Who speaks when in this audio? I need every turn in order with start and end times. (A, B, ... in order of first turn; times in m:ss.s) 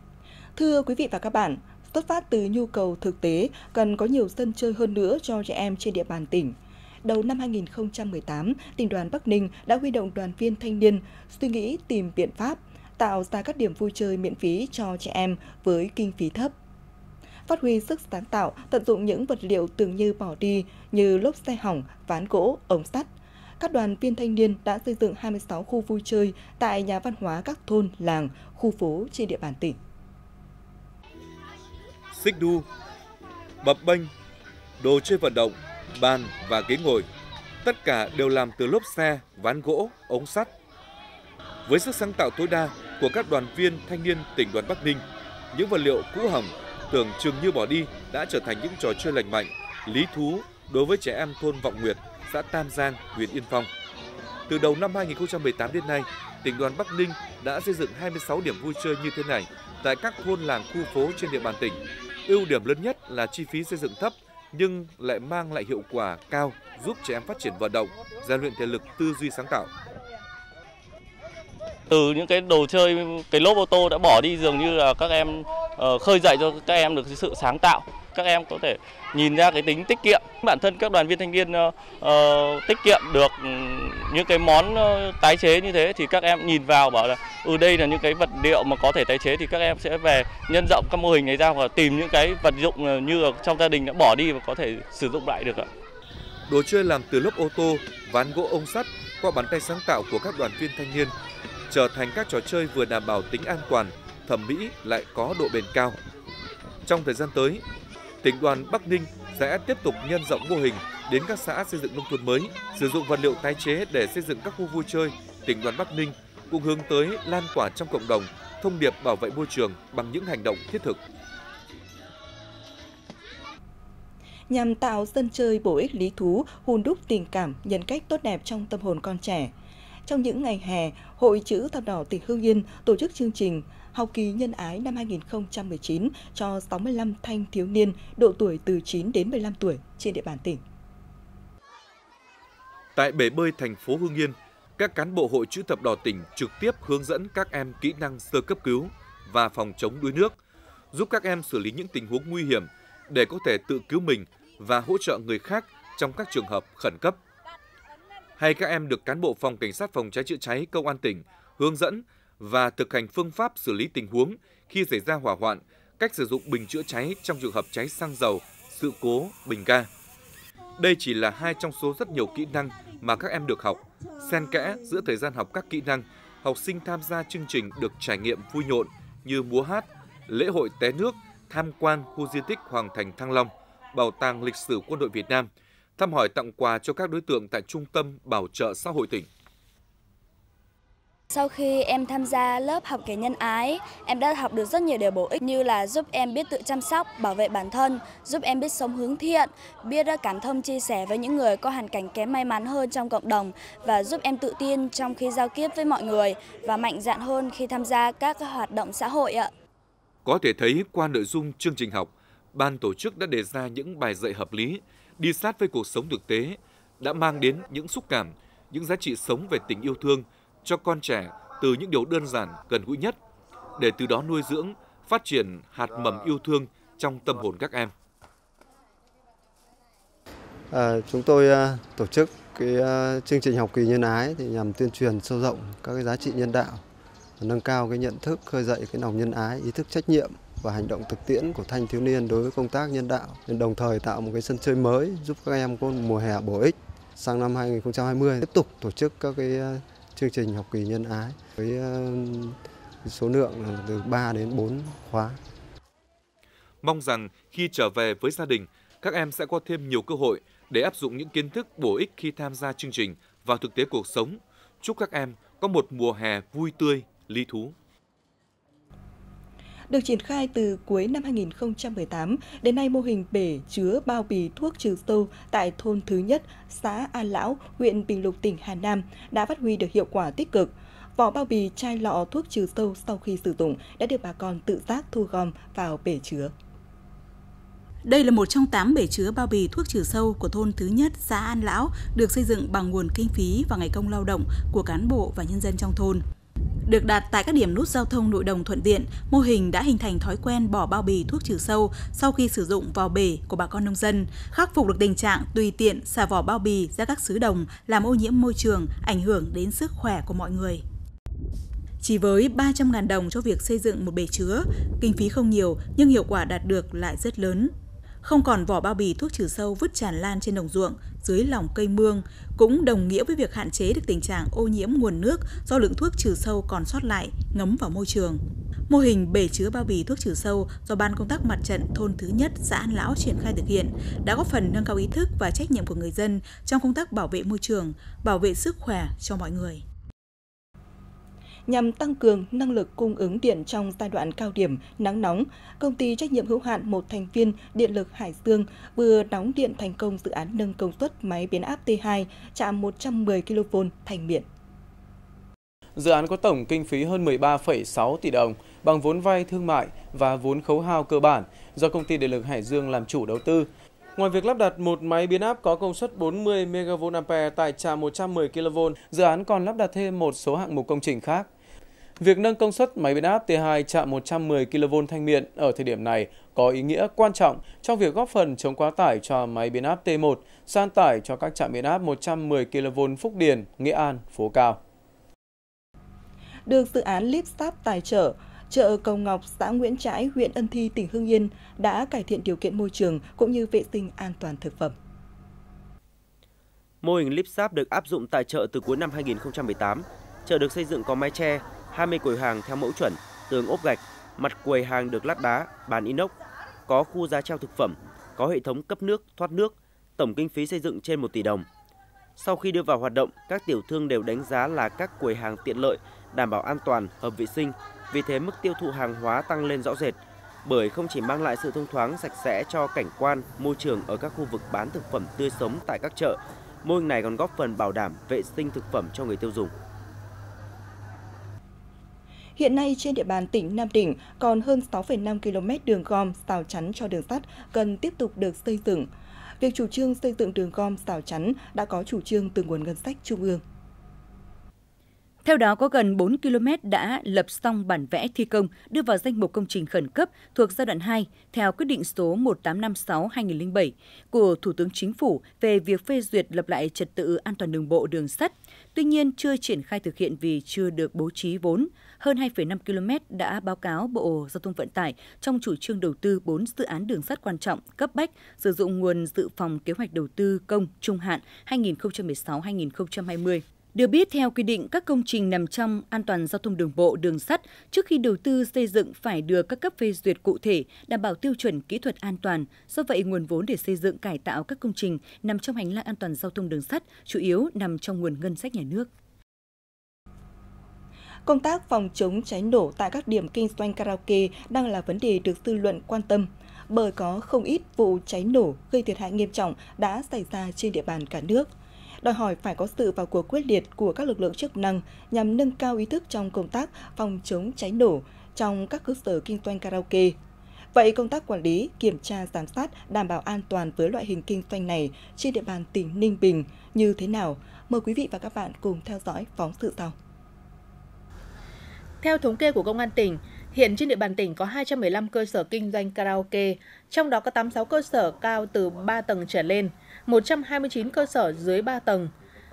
0:00.6-0:16.5 A
0:17.5-0:29.8 A
0:32.1-0:32.6 B
0:33.6-0:34.1 B
0:34.8-0:37.1 B
0:37.6-0:40.5 B
0:41.7-0:53.7 B
0:54.5-1:09.7 B
1:11.9-1:35.7 C
1:36.5-1:41.1 B
1:41.7-1:46.0 B
1:46.8-1:47.6 B
1:48.2-2:01.0 B
2:04.5-2:09.5 A
2:10.0-2:20.6 A
2:23.0-2:30.4 B
2:30.9-2:37.2 B
2:38.4-2:49.9 B
2:50.8-3:09.3 B
3:11.3-3:29.5 D
3:30.2-3:43.2 B
3:43.8-3:47.9 B
3:50.7-3:56.8 E
3:57.4-4:15.4 E
4:16.8-4:27.7 B
4:29.9-4:46.5 A
4:48.0-4:56.2 F
4:56.9-5:10.8 F
5:12.0-5:17.7 F
5:18.2-5:39.8 F
5:41.7-5:54.4 A
5:56.0-6:11.5 G
6:12.2-6:24.8 G
6:26.7-6:35.0 A
6:37.0-6:46.3 H
6:46.9-6:51.7 H
6:52.4-7:09.7 H
7:12.6-7:19.1 A
7:19.6-7:23.6 A
7:25.4-8:09.1 I
8:11.4-8:30.4 A
8:30.9-8:40.1 A
8:42.2-8:52.3 J